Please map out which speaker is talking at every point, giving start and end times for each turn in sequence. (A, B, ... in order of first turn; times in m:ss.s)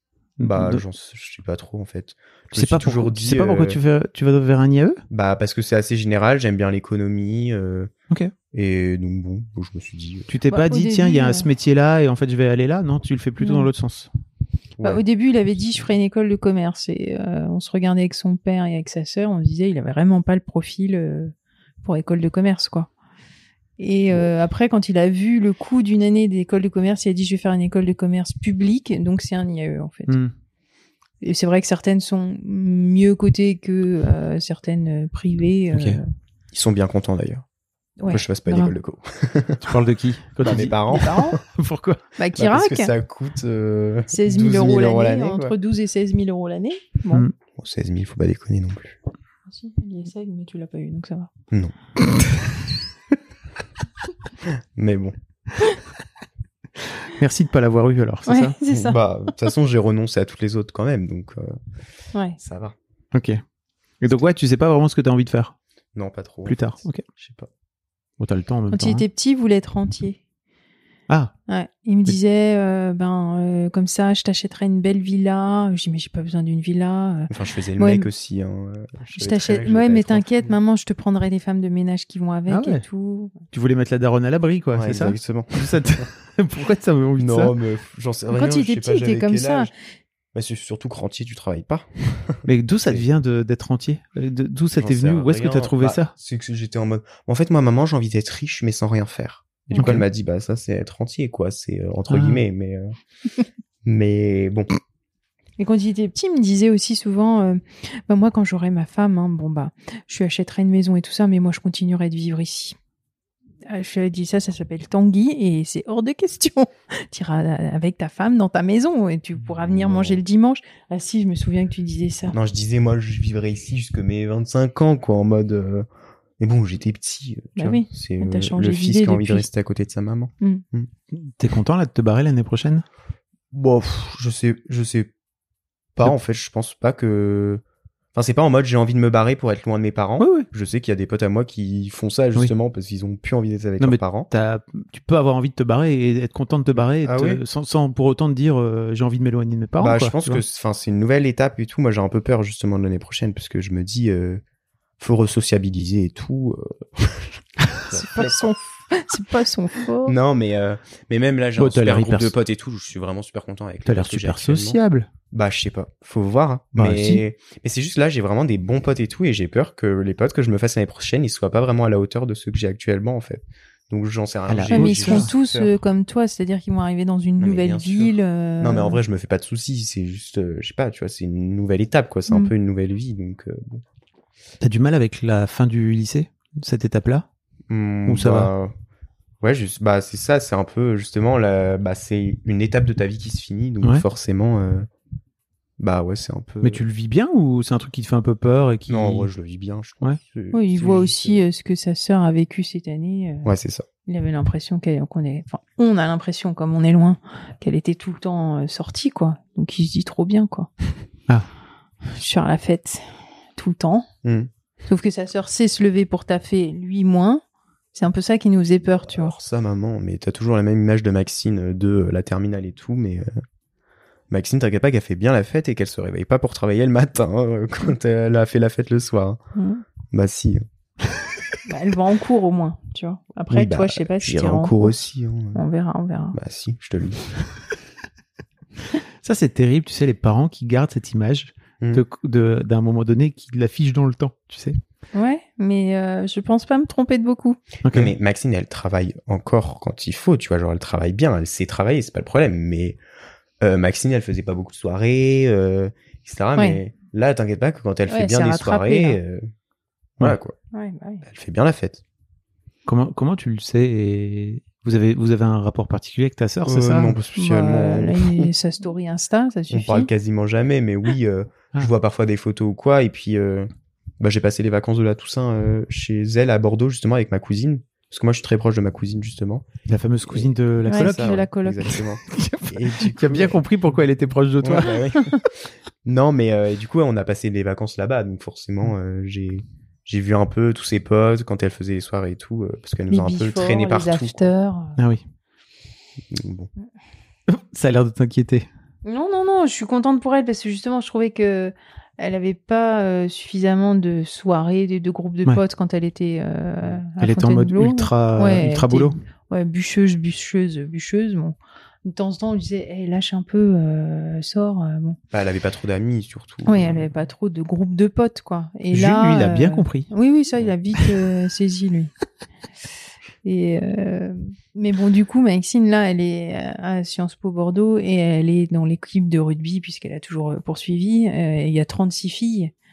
0:00.4-0:00.8 A
0:00.4-0:03.8 B
0:02.5-0:05.0 A
0:05.1-0:07.9 B
0:08.5-0:10.3 B
0:10.3-0:14.1 A
0:10.5-0:11.5 C
0:13.4-0:13.7 C
0:14.8-0:15.0 B
0:14.8-0:22.9 C
0:23.8-0:30.2 C
0:30.1-0:30.3 A
0:31.2-0:36.0 C
0:35.7-0:36.0 A
0:36.5-0:37.4 B
0:38.0-0:38.8 C
0:38.1-0:39.8 B
0:39.6-0:42.0 A
0:40.4-0:41.4 B
0:40.5-0:41.4 C
0:42.2-0:42.9 C
0:42.4-0:45.5 B
0:44.1-0:47.2 C
0:47.6-0:49.0 B
0:49.5-0:51.3 C
0:54.5-0:55.2 B
0:57.2-0:58.6 A
0:58.3-0:59.0 C
0:58.7-1:01.6 B
1:02.4-1:02.8 B
1:03.1-1:03.4 A
1:04.0-1:05.6 A
1:06.0-1:07.5 B
1:06.5-1:07.0 A
1:08.2-1:09.1 A
1:08.7-1:10.2 C
1:11.5-1:18.1 C
1:17.3-1:20.6 B
1:19.1-1:23.3 C
1:22.5-1:22.8 A
1:23.5-1:27.5 A
1:24.7-1:26.0 B
1:27.2-1:29.7 B
1:28.3-1:29.7 C
1:30.3-1:33.0 B
1:32.5-1:36.1 A
1:34.8-1:43.0 B
1:39.7-1:40.0 C
1:39.8-1:40.1 A
1:42.1-1:42.4 A
1:43.8-1:44.7 B
1:45.6-1:52.8 C
1:53.7-2:02.4 C
1:59.4-2:00.2 B
2:02.3-2:05.9 B
2:06.4-2:10.9 B
2:07.6-2:09.5 C
2:11.1-2:12.8 A
2:13.5-2:15.1 B
2:16.0-2:17.6 B
2:18.1-2:24.3 B
2:20.2-2:20.5 A
2:23.8-2:30.4 A
2:27.0-2:27.4 B
2:29.8-2:34.4 B
2:35.0-2:38.5 B
2:37.9-2:40.2 C
2:40.0-2:44.8 B
2:41.6-2:42.3 A
2:43.9-2:45.1 A
2:45.3-2:55.8 B
2:46.8-2:47.2 A
2:54.5-2:55.3 A
2:54.7-2:59.0 C
2:57.4-3:03.8 B
3:04.6-3:07.3 A
3:07.7-3:08.7 B
3:08.1-3:08.5 A
3:09.4-3:14.9 B
3:15.8-3:16.8 B
3:16.6-3:19.3 A
3:18.9-3:21.4 B
3:20.5-3:23.5 C
3:23.4-3:23.9 B
3:24.1-3:30.7 C
3:32.1-3:33.0 C
3:33.6-3:34.1 C
3:34.2-3:34.5 B
3:34.9-3:37.4 C
3:37.9-3:39.4 C
3:39.0-3:43.4 B
3:44.3-3:49.4 B
3:49.6-3:49.8 C
3:50.1-3:50.6 B
3:51.7-3:55.0 C
3:53.5-3:55.6 B
3:55.5-3:56.4 C
3:56.3-3:57.2 B
3:59.2-4:04.8 A
4:05.1-4:07.6 C
4:07.8-4:08.1 A
4:07.9-4:13.0 B
4:13.6-4:19.5 B
4:18.1-4:19.2 C
4:20.2-4:20.6 B
4:20.7-4:21.2 C
4:21.2-4:22.0 B
4:22.9-4:27.2 A
4:26.7-4:28.5 B
4:27.4-4:30.1 C
4:29.7-4:39.7 B
4:39.9-4:41.4 A
4:40.3-4:44.0 B
4:40.9-4:41.9 C
4:42.3-4:45.0 A
4:44.6-4:54.5 B
4:44.9-4:45.4 C
4:53.1-4:55.0 C
4:55.0-4:55.2 A
4:56.3-4:56.7 B
4:57.5-4:58.7 A
4:59.0-5:15.2 C
5:07.2-5:09.2 A
5:15.3-5:17.1 B
5:16.7-5:22.1 C
5:18.9-5:20.1 A
5:23.4-5:32.7 C